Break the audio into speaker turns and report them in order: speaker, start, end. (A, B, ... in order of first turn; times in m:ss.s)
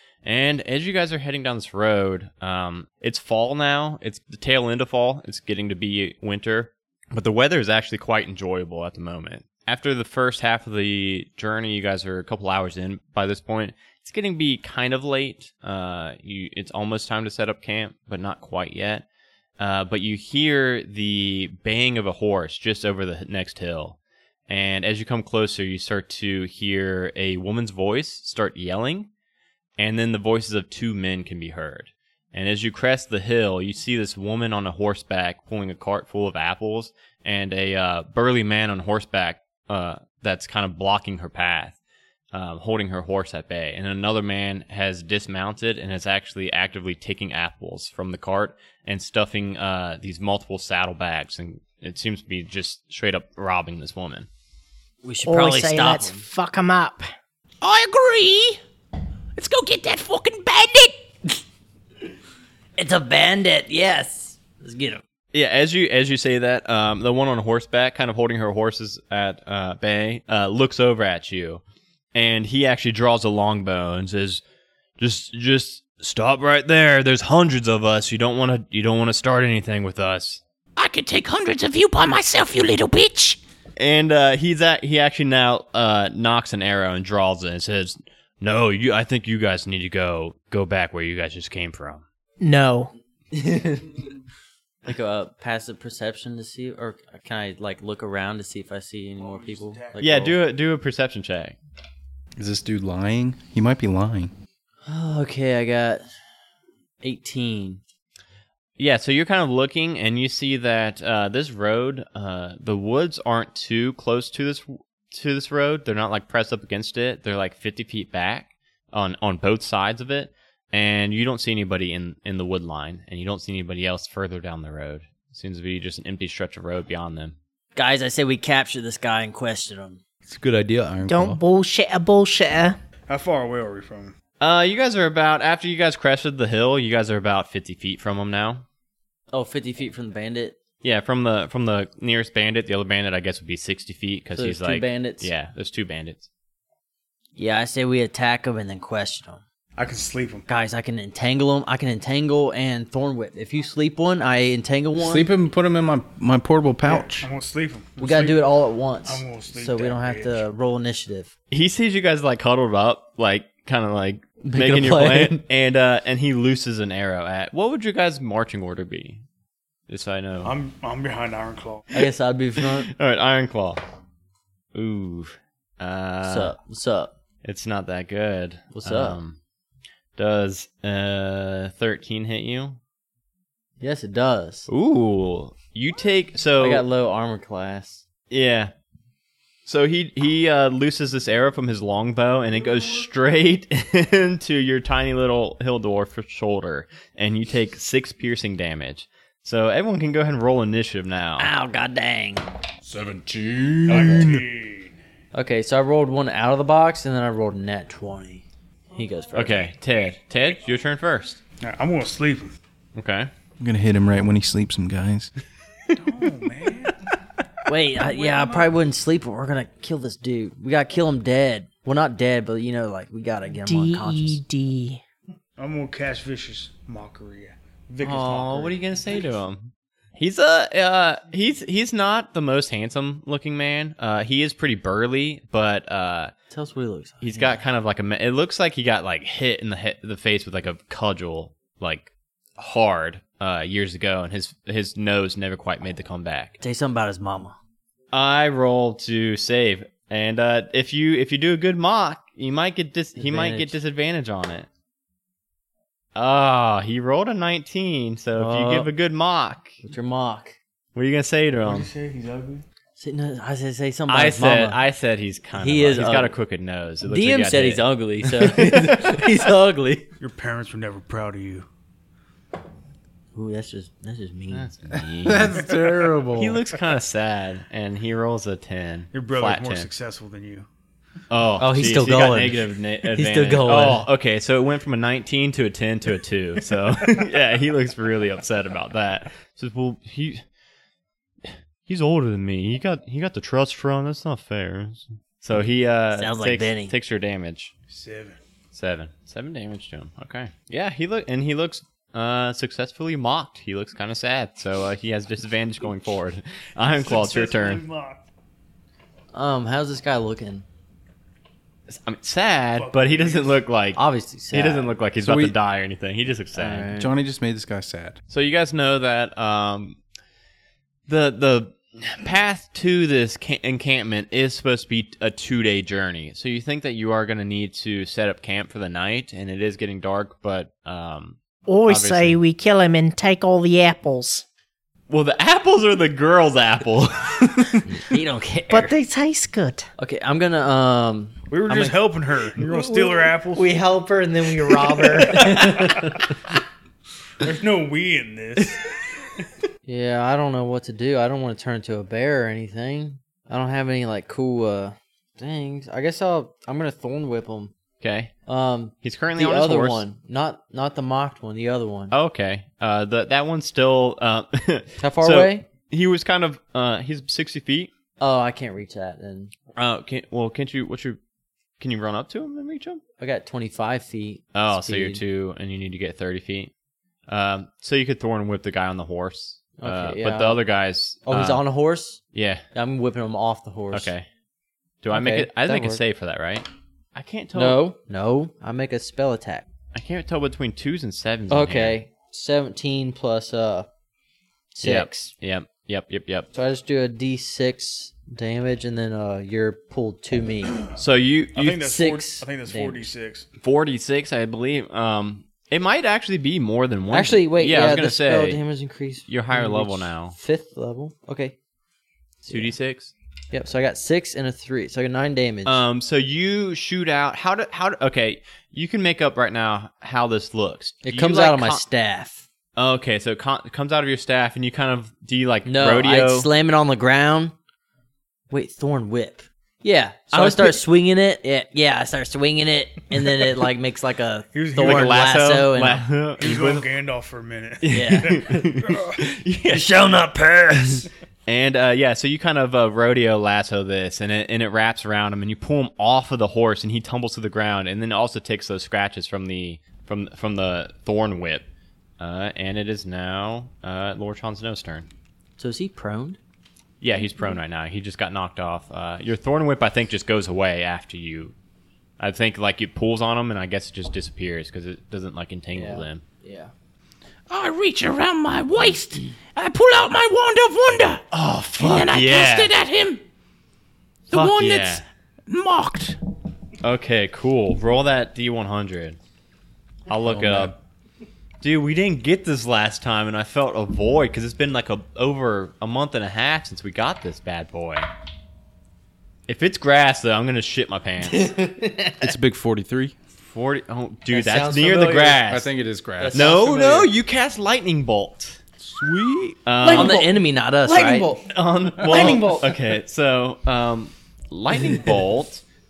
0:00.2-0:19.0 A
0:19.6-0:24.0 A
0:24.5-0:29.1 A
0:29.8-0:41.8 A
0:42.3-0:54.3 A
0:55.0-0:56.2 B
0:55.2-0:57.1 C
0:57.6-0:58.6 D
0:59.4-1:01.0 D
1:02.8-1:05.0 B
1:05.3-1:11.6 A
1:12.1-1:14.4 A
1:15.0-1:20.4 A
1:20.8-1:23.4 D
1:23.8-1:32.0 A
1:32.4-1:32.9 C
1:33.3-1:34.0 B
1:34.8-1:40.4 B
1:39.2-1:40.2 E
1:40.0-1:41.6 A
1:42.4-1:44.3 F
1:44.8-1:46.0 B
1:47.0-1:47.8 B
1:48.8-2:07.4 A
2:07.8-2:10.0 B
2:10.3-2:11.4 F
2:11.0-2:12.8 C
2:13.1-2:14.1 E
2:14.4-2:18.6 A
2:19.3-2:20.6 B
2:20.8-2:26.3 A
2:24.3-2:25.3 B
2:27.4-2:29.4 B
2:29.8-2:30.4 E
2:30.5-2:35.3 B
2:35.0-2:37.3 F
2:36.8-2:38.5 E
2:38.0-2:41.3 B
2:39.0-2:40.4 E
2:41.5-2:49.2 A
2:44.4-2:45.4 B
2:49.9-2:50.5 A
2:50.4-2:52.0 E
2:51.9-2:52.9 B
2:52.6-2:53.8 A
2:54.7-2:56.6 A
2:56.2-2:57.1 B
2:57.4-2:59.4 A
2:58.7-2:59.2 B
3:00.2-3:02.8 A
3:03.8-3:04.7 B
3:04.7-3:06.8 A
3:06.6-3:08.0 B
3:08.3-3:08.7 A
3:09.6-3:21.5 A
3:21.4-3:22.5 B
3:22.9-3:24.4 F
3:23.8-3:24.3 B
3:23.9-3:24.9 E
3:25.3-3:29.7 B
3:29.3-3:31.4 A
3:31.6-3:32.6 E
3:32.9-3:33.3 A
3:33.6-3:35.3 F
3:35.9-3:37.0 E
3:37.7-3:44.4 B
3:37.9-3:38.8 E
3:43.6-3:45.0 C
3:45.6-3:48.8 E
3:48.0-3:56.3 A
3:56.5-3:57.6 B
3:57.2-4:06.6 A
4:06.6-4:07.6 B
4:08.1-4:14.7 A
4:13.2-4:13.8 B
4:16.1-4:19.8 A
4:18.4-4:18.9 B
4:19.8-4:20.6 B
4:20.9-4:21.9 A
4:21.6-4:22.6 E
4:23.0-4:24.8 B
4:24.1-4:29.2 A
4:25.5-4:26.3 B
4:27.0-4:30.1 B
4:30.2-4:31.6 E
4:33.3-4:34.7 B
4:34.5-4:35.6 A
4:35.2-4:36.6 F
4:36.4-4:39.9 A
4:39.1-4:40.7 E
4:41.3-4:50.4 A
4:41.6-4:44.1 B
4:51.5-4:57.7 A
4:56.2-4:56.9 B
4:57.9-4:58.4 E
4:58.7-5:07.8 A
5:06.9-5:08.2 E
5:09.3-5:10.6 B
5:11.9-5:16.9 A
5:12.7-5:13.6 E
5:14.0-5:14.9 B
5:15.2-5:15.6 F
5:16.5-5:17.1 B
5:16.9-5:18.2 F
5:18.3-5:20.0 A
5:21.1-5:32.4 A
5:31.7-5:34.4 C
5:35.1-5:38.0 A
5:37.8-5:39.0 B
5:38.7-5:39.9 C
5:40.0-5:41.9 B
5:41.5-5:43.8 E
5:42.6-5:45.6 C
5:45.1-5:46.3 B
5:47.4-5:48.9 E
5:49.8-5:57.7 B
5:58.0-5:58.3 A
5:58.5-6:02.1 B
5:59.0-6:00.0 A
6:02.1-6:07.9 A
6:05.0-6:05.6 B
6:08.2-6:09.5 B
6:09.7-6:11.2 A
6:11.8-6:13.0 A
6:13.2-6:15.2 B
6:14.5-6:16.7 A
6:17.3-6:21.6 A
6:19.8-6:20.6 B
6:21.2-6:24.1 B
6:22.3-6:22.6 A
6:23.9-6:24.3 A
6:25.0-6:27.8 A
6:25.1-6:26.0 B
6:27.5-6:29.7 B
6:29.9-6:32.0 A
6:31.5-6:33.9 B
6:34.7-6:35.3 B
6:34.8-6:36.5 A
6:36.5-6:40.9 B
6:41.0-6:41.8 A
6:41.5-6:43.4 E
6:41.8-6:43.1 B
6:43.6-6:48.6 A
6:47.1-6:51.6 B
6:49.3-6:50.4 A
6:52.4-6:52.7 B
6:52.5-6:53.1 A
6:53.5-6:55.8 B
6:55.6-7:01.8 A
7:01.0-7:02.4 B
7:02.8-7:06.5 A
7:05.6-7:07.5 B
7:08.5-7:16.1 B
7:10.3-7:10.8 A
7:14.5-7:15.2 E
7:14.8-7:16.9 A
7:16.4-7:19.2 E
7:17.8-7:19.9 A
7:17.9-7:18.6 B
7:19.7-7:21.1 B
7:21.4-7:31.6 A
7:32.2-7:35.1 A
7:35.6-7:36.4 B
7:37.0-7:41.5 A
7:42.2-7:46.2 A
7:45.7-7:46.7 B
7:47.5-7:51.2 D
7:51.3-7:52.8 A
7:51.8-7:53.2 D
7:54.3-7:56.2 D
7:54.3-7:55.0 A
7:56.8-7:59.2 A
8:00.1-8:00.7 A
8:00.2-8:00.7 F
8:01.6-8:08.1 A
8:09.5-8:11.5 A
8:11.3-8:12.3 B
8:12.2-8:13.1 F
8:13.4-8:15.7 A
8:14.3-8:15.4 B
8:15.4-8:16.6 F
8:16.2-8:17.1 B
8:16.3-8:18.6 A
8:18.8-8:19.6 F
8:19.6-8:20.2 A
8:19.8-8:21.4 B
8:20.8-8:21.4 C
8:21.0-8:25.6 A
8:22.0-8:22.5 F
8:22.1-8:22.5 B
8:22.1-8:22.6 C